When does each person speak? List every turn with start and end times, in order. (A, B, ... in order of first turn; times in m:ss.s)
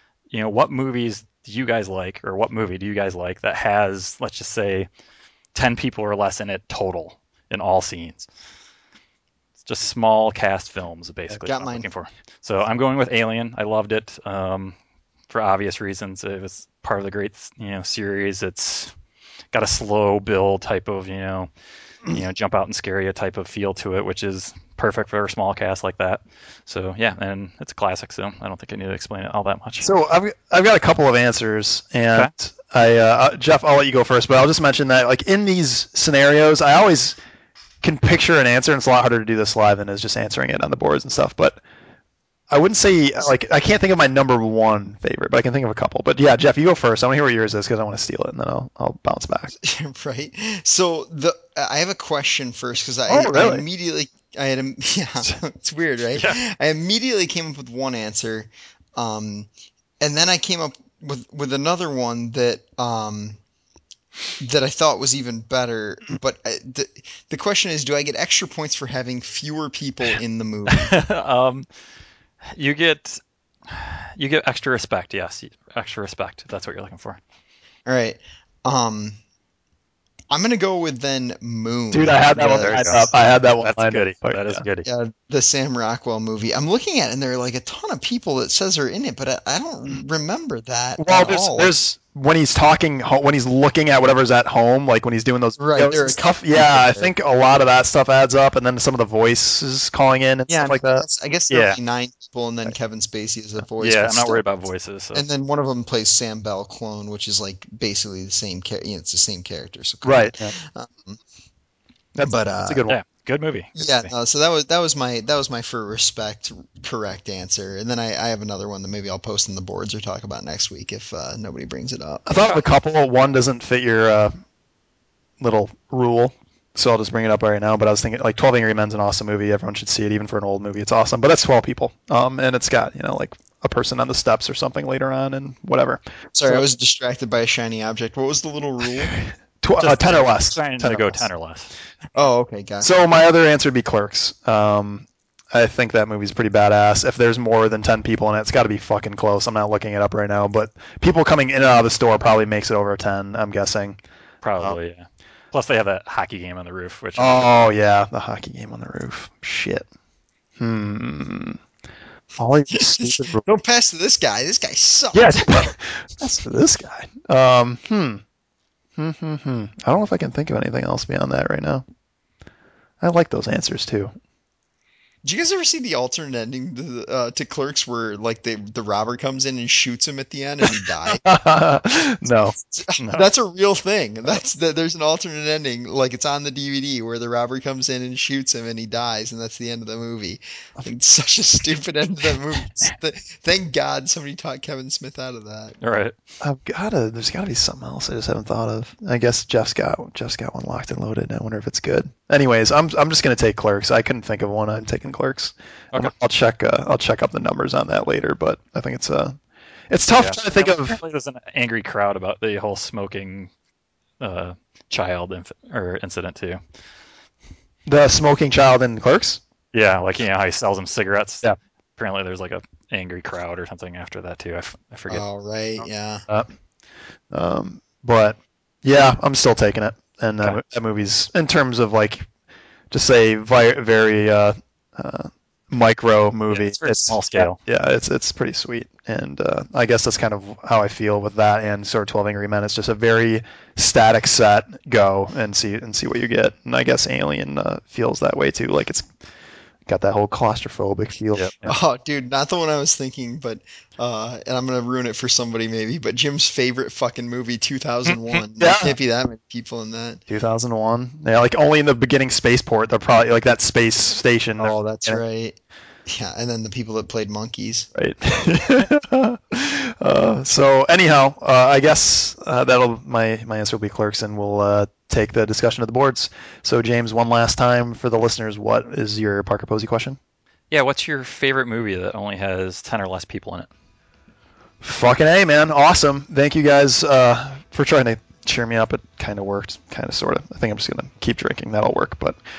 0:00.3-0:04.9 A
0:05.5-0:08.3 A
0:09.6-0:14.8 A
0:11.4-0:11.9 B
0:15.3-0:18.9 A
0:19.5-0:21.5 A
0:22.1-0:29.9 A
0:29.8-0:37.2 C
0:37.8-0:41.6 C
0:42.5-0:49.5 C
0:49.6-0:59.5 B
0:53.1-0:53.6 C
0:56.1-0:56.4 A
1:00.0-1:03.4 B
1:04.4-1:11.0 B
1:10.7-1:11.7 A
1:12.5-1:17.2 A
1:17.9-1:19.2 B
1:20.3-1:23.0 B
1:21.9-1:24.6 C
1:22.3-1:23.1 A
1:23.6-1:24.9 A
1:24.8-1:31.8 B
1:31.0-1:41.0 C
1:35.6-1:37.1 B
1:40.5-1:44.4 B
1:41.5-1:41.8 A
1:43.8-1:45.2 A
1:45.1-1:51.2 B
1:50.0-1:50.5 C
1:52.2-1:53.0 C
1:52.2-1:52.8 B
1:52.9-1:54.1 A
1:53.8-2:02.5 B
2:02.3-2:04.3 C
2:05.4-2:16.6 C
2:16.4-2:19.2 B
2:19.6-2:21.3 C
2:19.8-2:21.7 A
2:22.2-2:22.9 B
2:22.8-2:34.0 C
2:34.4-2:37.5 A
2:37.2-2:39.9 C
2:40.6-2:41.6 C
2:42.4-2:43.4 C
2:42.7-2:45.5 B
2:45.1-2:48.2 C
2:49.0-2:51.8 C
2:53.0-2:54.1 C
2:55.2-3:01.2 B
3:01.0-3:02.6 C
3:02.7-3:15.8 B
3:03.0-3:03.3 A
3:15.8-3:16.2 A
3:16.4-3:29.4 C
3:29.9-3:31.0 C
3:30.2-3:33.5 A
3:34.2-3:36.6 A
3:37.9-3:39.4 C
3:39.7-3:45.2 A
3:45.1-3:46.2 B
3:47.3-3:52.3 C
3:52.9-4:09.1 C
3:56.5-3:57.6 A
4:09.9-4:11.8 C
4:11.6-4:20.2 B
4:18.6-4:19.0 C
4:20.3-4:25.2 C
4:24.6-4:27.9 B
4:28.0-4:40.2 C
4:40.7-4:43.7 A
4:44.8-4:52.4 C